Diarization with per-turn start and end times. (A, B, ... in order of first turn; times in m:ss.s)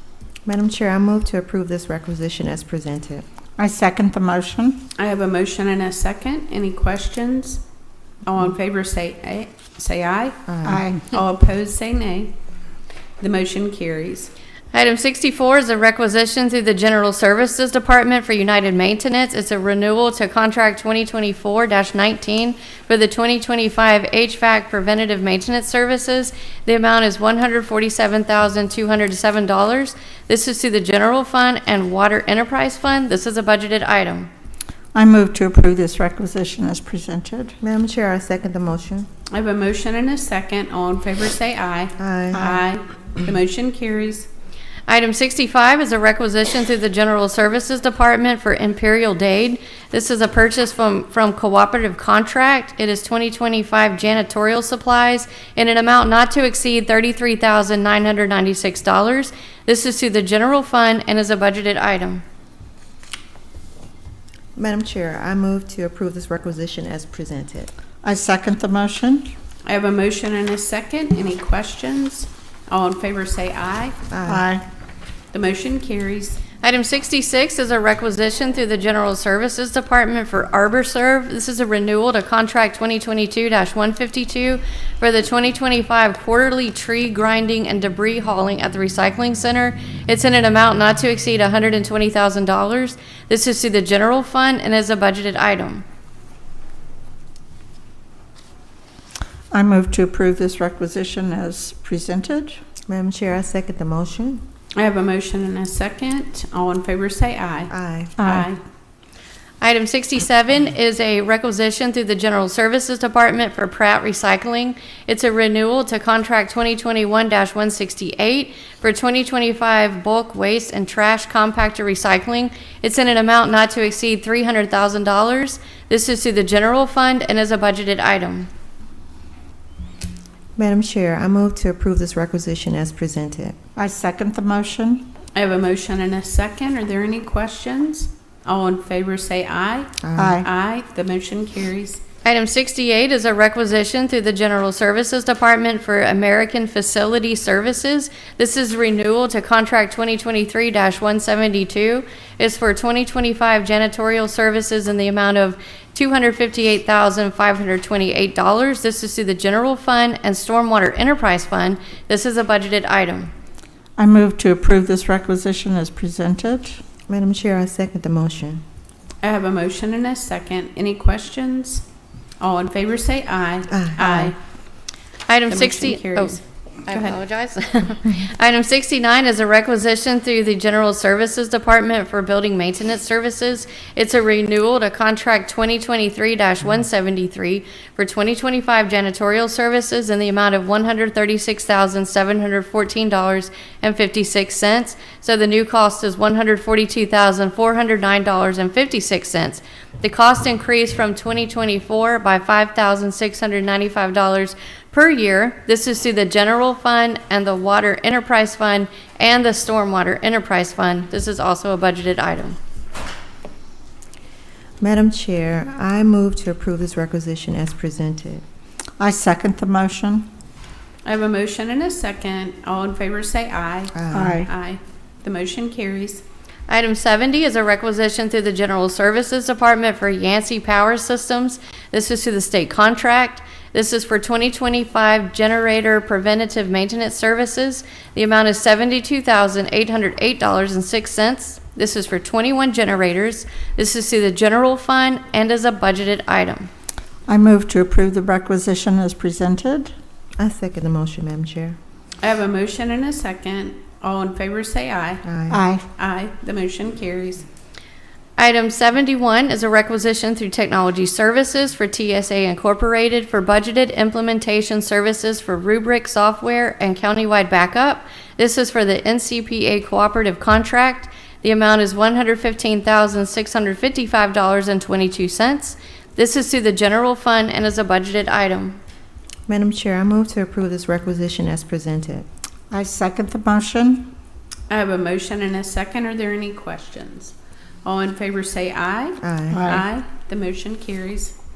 0:00.4-0:03.2 A
0:03.6-0:04.8 B
0:05.0-0:07.6 C
0:08.2-0:10.4 C
0:10.5-0:10.8 A
0:10.6-0:11.0 B
0:11.1-0:12.3 C
0:13.2-0:14.3 C
0:14.7-0:34.3 D
0:34.9-0:37.5 B
0:37.6-0:39.1 A
0:39.3-0:44.3 C
0:42.0-0:42.6 A
0:44.9-1:02.2 D
1:04.6-1:07.7 A
1:08.0-1:09.3 B
1:09.6-1:14.0 C
1:14.1-1:14.4 A
1:14.2-1:14.6 B
1:15.3-1:16.4 C
1:16.6-1:35.8 D
1:39.5-1:42.6 B
1:42.9-1:44.4 A
1:44.8-1:48.6 C
1:47.7-1:48.1 A
1:48.2-1:48.5 B
1:49.6-2:08.5 D
2:10.6-2:13.6 A
2:13.8-2:15.1 B
2:15.3-2:22.0 C
2:20.0-2:20.4 A
2:20.2-2:20.5 B
2:22.2-2:43.3 D
2:44.0-2:46.8 B
2:47.1-2:48.6 A
2:49.2-2:51.8 C
2:52.4-2:54.4 C
2:53.7-2:54.3 A
2:55.3-3:32.6 D
2:55.5-2:57.2 C
3:34.8-3:38.4 A
3:39.0-3:40.3 B
3:41.0-3:46.2 C
3:43.9-3:44.4 A
3:44.1-3:44.5 B
3:46.7-4:06.7 D
4:07.3-4:09.9 B
4:10.4-4:11.8 A
4:12.2-4:15.2 C
4:15.2-4:15.6 A
4:15.5-4:15.8 B
4:16.0-4:17.4 C
4:18.4-4:38.8 D
4:39.5-4:42.2 A
4:42.7-4:44.1 B
4:44.7-4:51.3 C
4:49.2-4:49.7 A
4:49.5-4:49.9 B